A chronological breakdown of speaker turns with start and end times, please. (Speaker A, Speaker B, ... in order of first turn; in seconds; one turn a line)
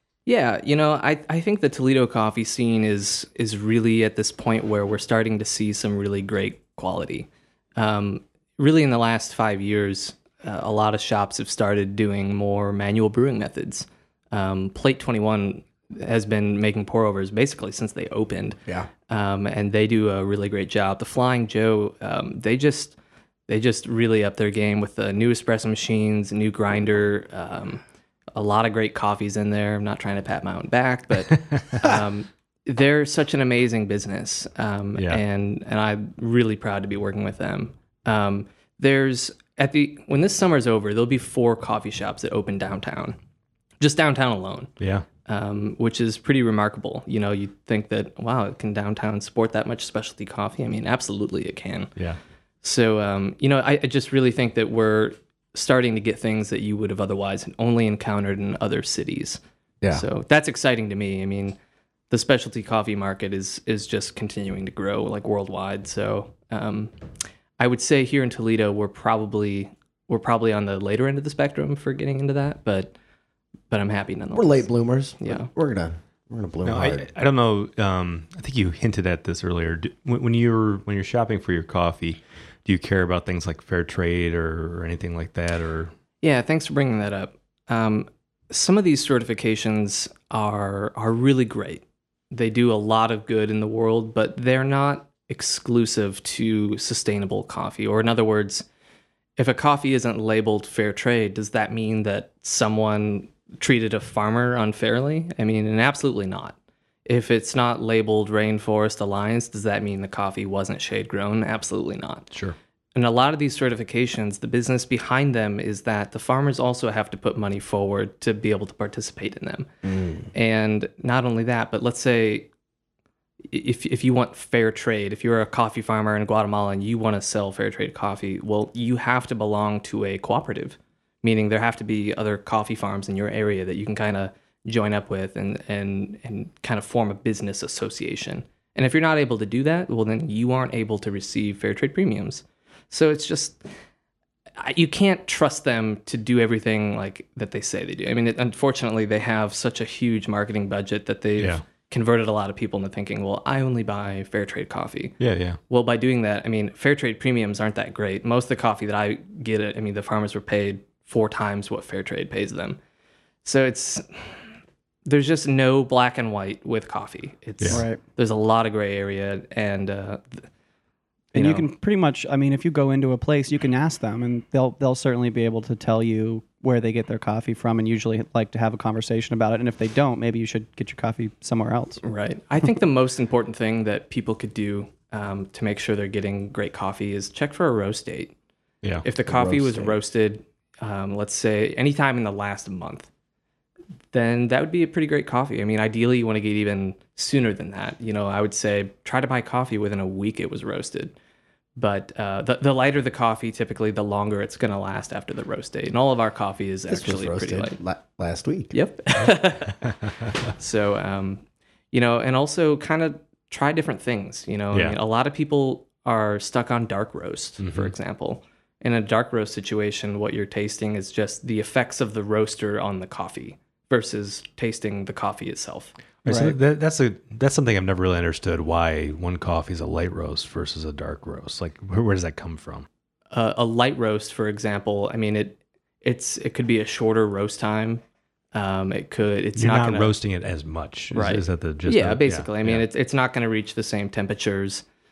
Speaker A: 0.3-23.0
Speaker A: 23.5-27.8
Speaker A: 28.3-43.2
Speaker B: 31.3-31.9
Speaker B: 35.0-35.2
Speaker A: 43.8-44.7
Speaker B: 44.8-45.1
Speaker A: 45.2-51.9
Speaker A: 52.6-59.4
Speaker A: 59.9-61.6
Speaker A: 62.1-66.9
Speaker A: 67.6-73.0
Speaker A: 73.7-75.5
Speaker C: 74.3-77.1
Speaker B: 76.7-85.9
Speaker A: 86.2-98.7
Speaker A: 99.4-106.5
Speaker A: 107.1-112.3
Speaker A: 113.0-119.7
Speaker C: 119.8-120.3
Speaker A: 120.3-122.5
Speaker A: 123.5-143.6
Speaker A: 144.6-155.2
Speaker B: 151.4-151.6
Speaker B: 155.2-155.6
Speaker A: 155.7-162.8
Speaker A: 163.4-164.4
Speaker A: 165.1-170.4
Speaker D: 167.7-168.0
Speaker A: 171.3-171.7
Speaker D: 171.3-182.0
Speaker A: 182.0-188.3
Speaker A: 189.0-193.1
Speaker C: 189.2-189.9
Speaker A: 194.1-201.1
Speaker A: 201.8-207.8
Speaker C: 206.9-208.7
Speaker A: 208.7-225.9
Speaker B: 214.7-215.0
Speaker B: 217.6-217.9
Speaker B: 226.2-232.9
Speaker D: 226.3-226.6
Speaker A: 233.3-238.0
Speaker A: 238.5-240.2
Speaker B: 239.6-242.9
Speaker A: 241.1-244.8